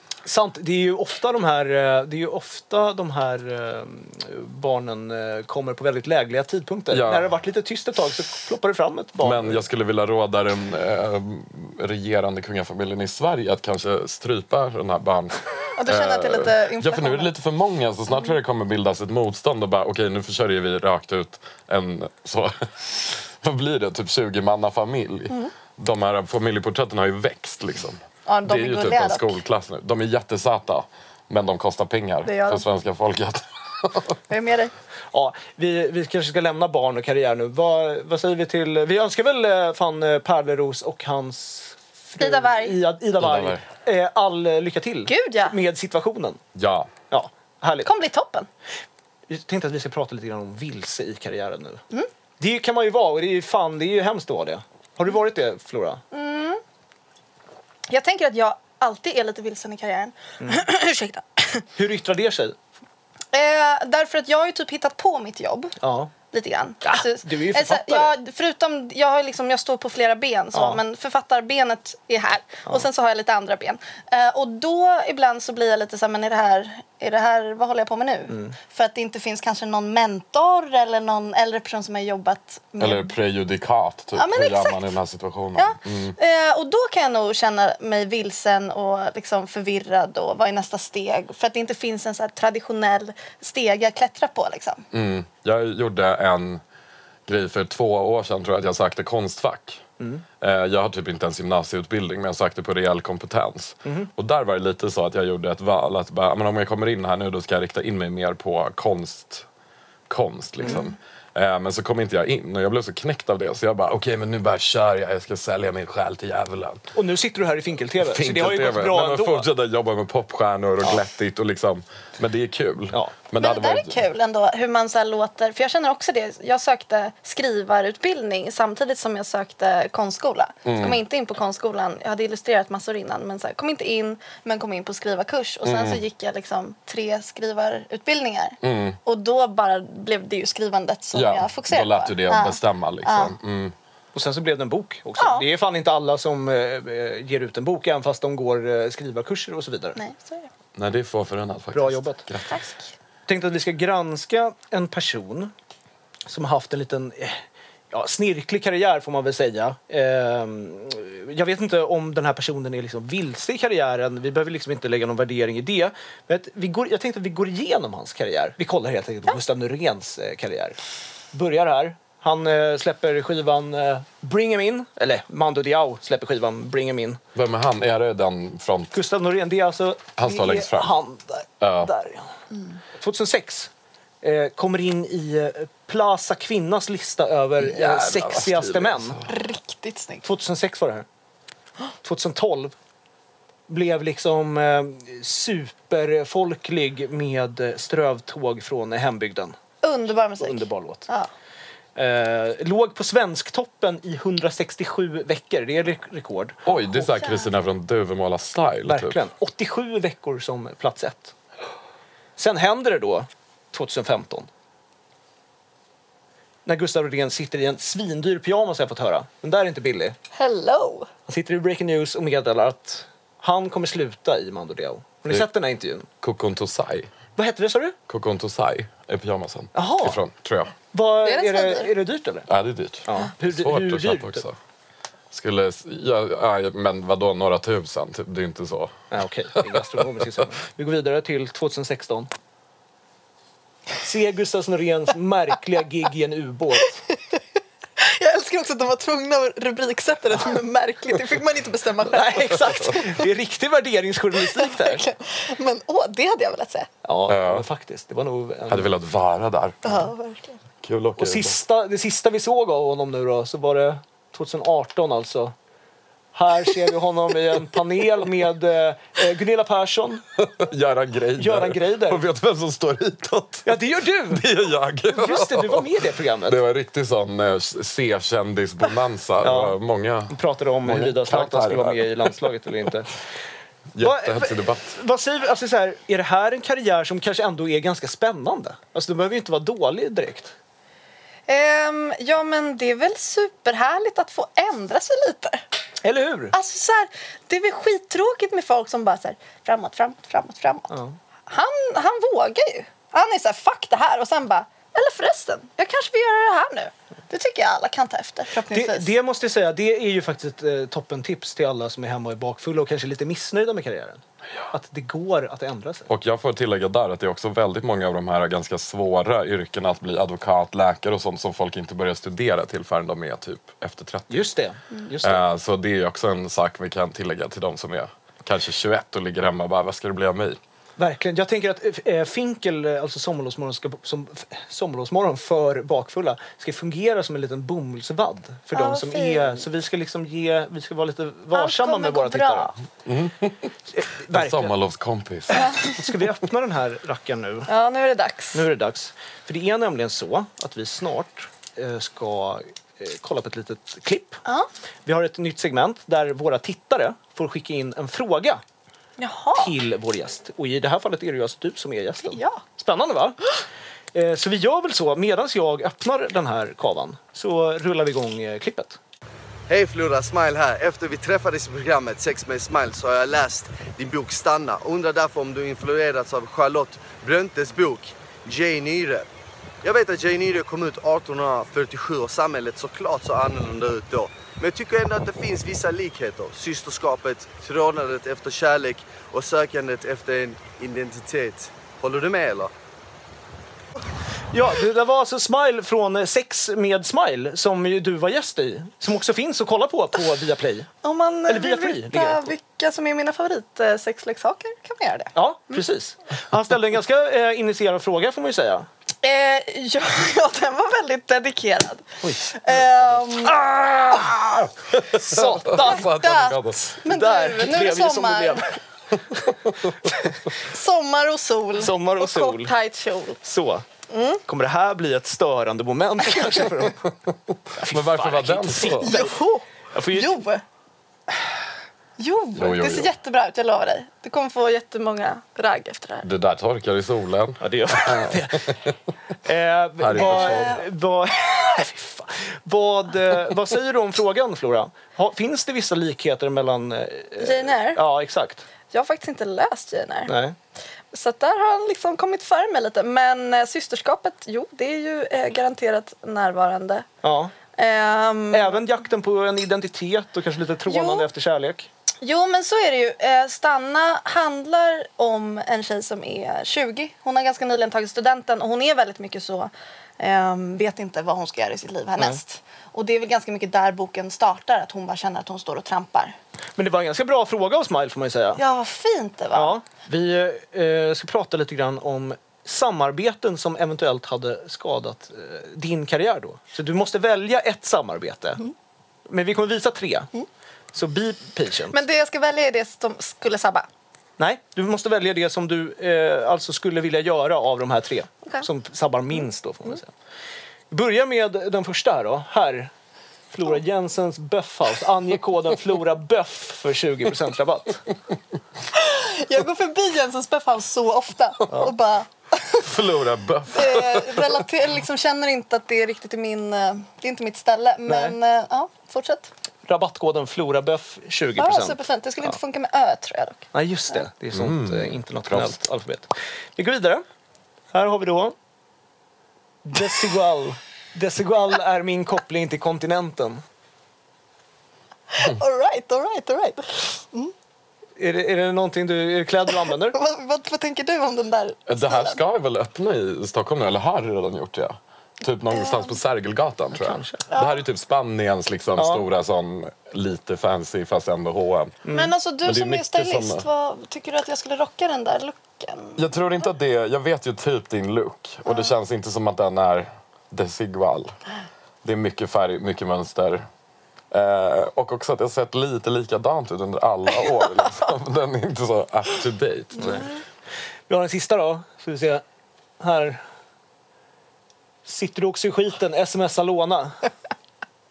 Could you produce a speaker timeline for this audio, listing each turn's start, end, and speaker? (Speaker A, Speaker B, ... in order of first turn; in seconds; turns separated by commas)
Speaker A: 0.2-9.6, Speaker B: 6.9-7.3, Speaker B: 9.2-34.1, Speaker C: 15.7-17.3, Speaker C: 28.2-29.4, Speaker C: 32.2-32.6, Speaker C: 34.3-34.7, Speaker A: 35.1-46.4, Speaker C: 42.2-42.8, Speaker B: 43.2-43.6, Speaker C: 45.1-45.6, Speaker B: 46.5-46.9, Speaker A: 47.1-47.9, Speaker C: 47.8-48.5, Speaker A: 49.3-51.8, Speaker A: 52.4-56.0, Speaker C: 56.1-56.6, Speaker C: 57.9-61.6, Speaker A: 61.8-62.6, Speaker C: 63.3-65.7, Speaker A: 65.8-66.1, Speaker C: 66.3-83.1, Speaker A: 66.8-68.1, Speaker A: 70.5-70.8, Speaker B: 82.8-86.2, Speaker C: 84.2-84.9, Speaker C: 85.5-94.8, Speaker B: 94.9-96.6, Speaker B: 97.2-99.8, Speaker A: 100.0-100.2, Speaker B: 100.4-109.5, Speaker A: 103.8-104.1, Speaker B: 110.1-116.8, Speaker A: 110.6-110.9, Speaker A: 116.9-119.5, Speaker B: 118.0-124.0, Speaker C: 123.4-143.3, Speaker B: 130.7-131.0, Speaker B: 135.6-136.0, Speaker B: 138.6-139.0, Speaker B: 141.1-143.7, Speaker A: 144.1-150.0, Speaker C: 145.2-145.4, Speaker C: 149.9-150.5, Speaker B: 150.8-152.6, Speaker A: 151.7-152.2, Speaker C: 152.5-152.9, Speaker A: 153.3-155.5, Speaker A: 156.3-170.8, Speaker A: 171.3-177.2, Speaker B: 177.3-178.9, Speaker A: 178.9-182.3, Speaker B: 180.2-180.9, Speaker B: 181.6-181.9, Speaker A: 182.9-183.7, Speaker A: 184.2-189.2, Speaker B: 187.6-189.3, Speaker C: 189.3-190.2, Speaker A: 190.2-191.1, Speaker A: 192.0-192.7, Speaker A: 193.7-199.6, Speaker C: 199.8-201.3, Speaker A: 200.4-201.1, Speaker A: 201.9-206.7, Speaker B: 206.6-209.2, Speaker C: 207.2-207.5, Speaker A: 208.9-211.3, Speaker A: 212.4-214.5, Speaker A: 216.7-220.2, Speaker C: 220.3-221.1, Speaker A: 221.3-226.1, Speaker B: 226.2-227.1, Speaker A: 227.3-227.9, Speaker B: 228.1-230.8, Speaker A: 229.7-230.2, Speaker A: 230.9-232.5, Speaker C: 231.2-231.9, Speaker B: 232.5-234.6, Speaker A: 233.1-234.4, Speaker B: 235.3-239.0, Speaker A: 239.1-242.3, Speaker B: 239.7-240.0, Speaker A: 244.0-247.0, Speaker C: 247.1-247.4, Speaker C: 248.0-253.2, Speaker A: 252.0-255.0, Speaker C: 254.4-256.9, Speaker A: 257.0-258.9, Speaker B: 257.3-257.6, Speaker B: 258.7-260.0, Speaker C: 259.8-260.6, Speaker B: 260.8-261.6, Speaker A: 261.2-265.5, Speaker A: 266.3-270.2, Speaker B: 270.4-275.9, Speaker A: 271.4-272.2, Speaker A: 273.6-274.4, Speaker A: 275.1-276.6, Speaker B: 276.4-280.3, Speaker A: 279.4-279.7, Speaker A: 280.3-283.1, Speaker B: 280.8-282.4, Speaker B: 283.9-284.9, Speaker A: 284.0-290.5, Speaker C: 291.5-295.6, Speaker A: 296.0-296.5, Speaker C: 296.5-300.9, Speaker A: 300.9-301.1, Speaker C: 301.5-309.1, Speaker A: 308.7-316.1, Speaker B: 316.1-324.5, Speaker A: 324.3-325.4, Speaker B: 325.2-330.6, Speaker A: 331.0-342.7, Speaker C: 338.7-339.6, Speaker C: 341.5-342.7, Speaker B: 343.1-343.7, Speaker A: 343.9-344.7, Speaker B: 344.3-345.7, Speaker A: 345.5-347.7, Speaker C: 347.7-348.7, Speaker A: 348.5-354.4, Speaker A: 355.1-358.6, Speaker C: 359.2-359.7, Speaker A: 359.6-363.5, Speaker C: 362.2-362.6, Speaker A: 364.1-369.0, Speaker D: 369.7-379.3, Speaker D: 379.8-392.7, Speaker A: 394.5-400.9, Speaker C: 401.0-405.8, Speaker A: 401.5-402.5, Speaker A: 405.3-408.9, Speaker C: 409.2-413.6, Speaker A: 412.2-414.2, Speaker B: 414.9-417.0, Speaker A: 415.1-416.0, Speaker C: 415.6-418.6, Speaker A: 417.1-418.6, Speaker C: 420.0-423.4, Speaker A: 421.8-422.7, Speaker A: 423.4-423.9, Speaker C: 424.1-424.4, Speaker A: 424.4-427.1, Speaker B: 427.5-429.1, Speaker A: 427.7-429.3, Speaker C: 429.0-430.6, Speaker A: 429.9-430.4, Speaker C: 432.2-436.2, Speaker B: 432.5-433.1, Speaker B: 436.2-438.9, Speaker A: 437.6-438.8, Speaker A: 439.4-448.6, Speaker B: 440.0-440.8, Speaker C: 440.1-440.8, Speaker C: 447.4-448.0, Speaker C: 448.9-450.3, Speaker A: 450.3-450.6, Speaker C: 451.1-457.1, Speaker A: 457.2-457.5, Speaker C: 457.8-458.8, Speaker A: 458.5-461.9, Speaker C: 460.9-461.3, Speaker C: 462.2-476.4, Speaker A: 476.8-478.6, Speaker C: 478.6-479.8, Speaker A: 479.5-488.6, Speaker A: 489.3-490.3, Speaker A: 490.9-492.0, Speaker C: 491.9-493.9, Speaker A: 494.4-500.1, Speaker A: 500.9-502.9, Speaker A: 503.5-508.0, Speaker C: 508.9-512.9, Speaker B: 512.8-514.6, Speaker C: 513.7-519.5, Speaker A: 518.1-518.3, Speaker A: 519.9-522.5, Speaker C: 521.6-524.2, Speaker A: 523.7-527.2, Speaker B: 524.5-525.7, Speaker A: 527.9-528.5, Speaker A: 529.8-533.6, Speaker C: 535.3-537.5, Speaker A: 538.2-540.1, Speaker C: 540.0-542.4, Speaker B: 541.9-552.0, Speaker C: 545.7-546.2, Speaker A: 547.0-547.5, Speaker C: 547.5-547.8, Speaker A: 549.0-549.2, Speaker A: 552.0-552.3, Speaker C: 552.1-556.2, Speaker B: 552.6-553.7, Speaker B: 556.2-561.3, Speaker B: 562.0-563.6, Speaker B: 564.3-570.2, Speaker A: 570.0-570.3, Speaker A: 571.1-572.4, Speaker A: 573.0-573.4, Speaker A: 575.0-577.2